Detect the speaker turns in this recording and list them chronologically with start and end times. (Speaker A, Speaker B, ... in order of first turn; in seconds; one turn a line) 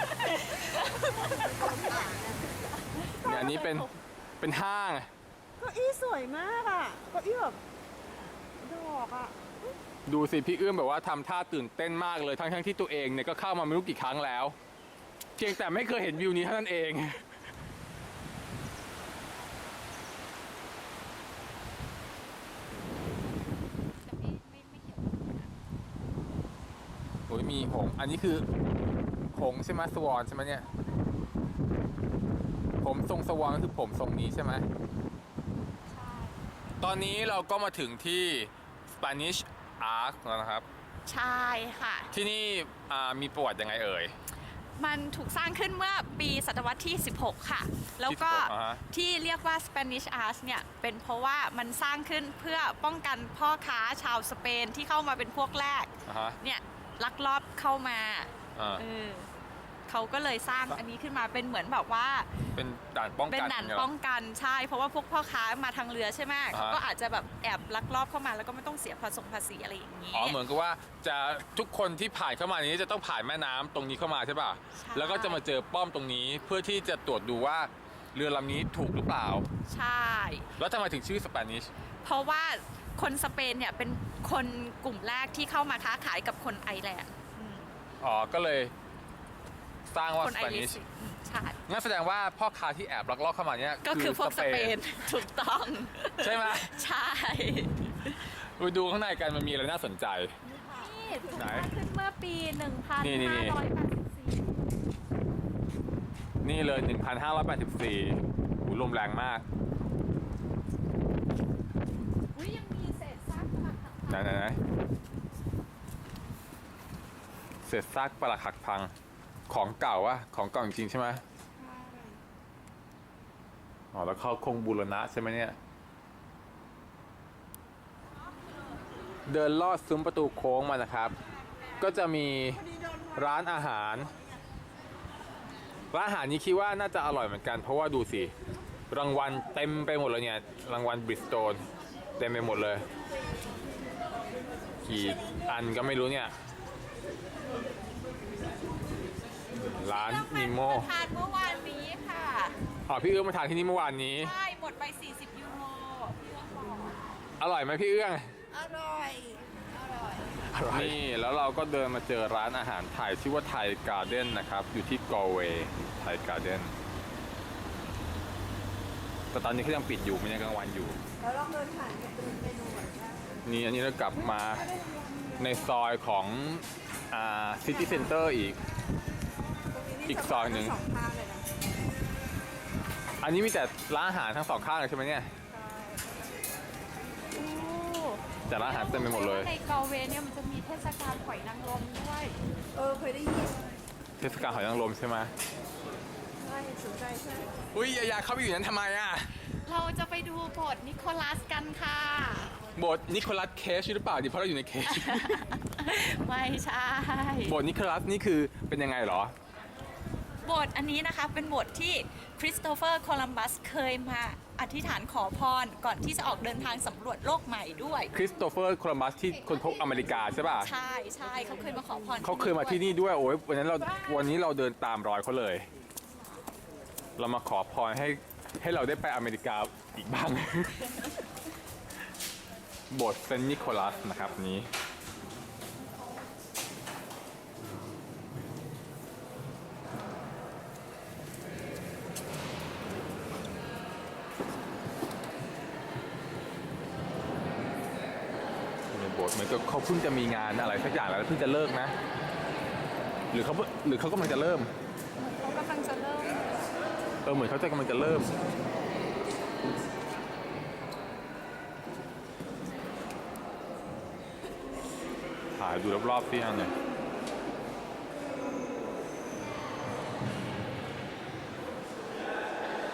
Speaker A: 0.1-1.9
Speaker B: 0.6-3.5
Speaker A: 3.1-3.9
Speaker C: 3.2-5.1
Speaker B: 5.6-7.6
Speaker B: 8.6-9.7
Speaker C: 10.1-14.6
Speaker C: 15.4-17.3
Speaker A: 23.8-25.5
Speaker C: 27.3-28.4
Speaker C: 29.3-30.7
Speaker C: 32.8-34.6
Speaker A: 35.9-36.5
Speaker C: 36.8-40.6
Speaker A: 41.0-42.1
Speaker C: 42.1-44.1
Speaker A: 44.8-59.3
Speaker C: 48.0-48.8
Speaker C: 56.0-56.4
Speaker C: 58.5-58.8
Speaker A: 59.9-62.3
Speaker C: 62.5-63.9
Speaker A: 63.3-70.4
Speaker C: 66.5-66.8
Speaker C: 70.1-79.5
Speaker A: 74.7-75.4
Speaker A: 79.7-80.5
Speaker C: 80.5-81.7
Speaker A: 82.0-87.7
Speaker C: 88.0-88.7
Speaker C: 89.9-90.8
Speaker A: 90.2-91.6
Speaker C: 91.7-94.8
Speaker A: 93.8-98.3
Speaker C: 96.2-96.8
Speaker C: 98.3-100.3
Speaker B: 100.4-101.4
Speaker A: 100.7-104.5
Speaker C: 101.3-101.7
Speaker C: 103.0-103.6
Speaker C: 106.4-109.4
Speaker A: 112.3-114.4
Speaker C: 114.1-114.6
Speaker C: 117.6-118.9
Speaker C: 119.5-121.2
Speaker A: 121.6-122.2
Speaker C: 123.9-125.6
Speaker C: 129.3-131.2
Speaker C: 131.8-134.1
Speaker C: 135.9-138.3
Speaker C: 138.9-141.6
Speaker C: 142.2-142.8
Speaker C: 144.8-146.3
Speaker C: 149.6-150.9
Speaker A: 149.8-152.5
Speaker C: 152.9-154.3
Speaker A: 154.2-157.0
Speaker C: 157.4-158.3
Speaker B: 158.5-159.5
Speaker C: 160.4-166.7
Speaker C: 169.3-171.0
Speaker B: 171.2-173.3
Speaker C: 173.4-174.7
Speaker B: 174.5-175.3
Speaker C: 175.4-178.6
Speaker B: 177.7-178.1
Speaker B: 179.7-181.5
Speaker C: 180.1-180.8
Speaker C: 183.2-185.3
Speaker B: 185.5-186.2
Speaker A: 187.3-192.3
Speaker C: 188.5-189.5
Speaker B: 192.8-193.7
Speaker C: 194.2-195.3
Speaker B: 196.4-197.6
Speaker C: 197.7-199.3
Speaker A: 199.6-202.6
Speaker C: 202.8-205.4
Speaker A: 204.9-207.6
Speaker C: 207.4-209.3
Speaker A: 210.4-218.1
Speaker C: 218.1-220.7
Speaker A: 220.5-222.9
Speaker C: 222.2-225.7
Speaker C: 227.2-231.1
Speaker C: 232.9-234.7
Speaker C: 248.9-251.9
Speaker C: 253.3-254.7
Speaker A: 255.2-256.7
Speaker C: 257.2-258.3
Speaker C: 265.6-266.7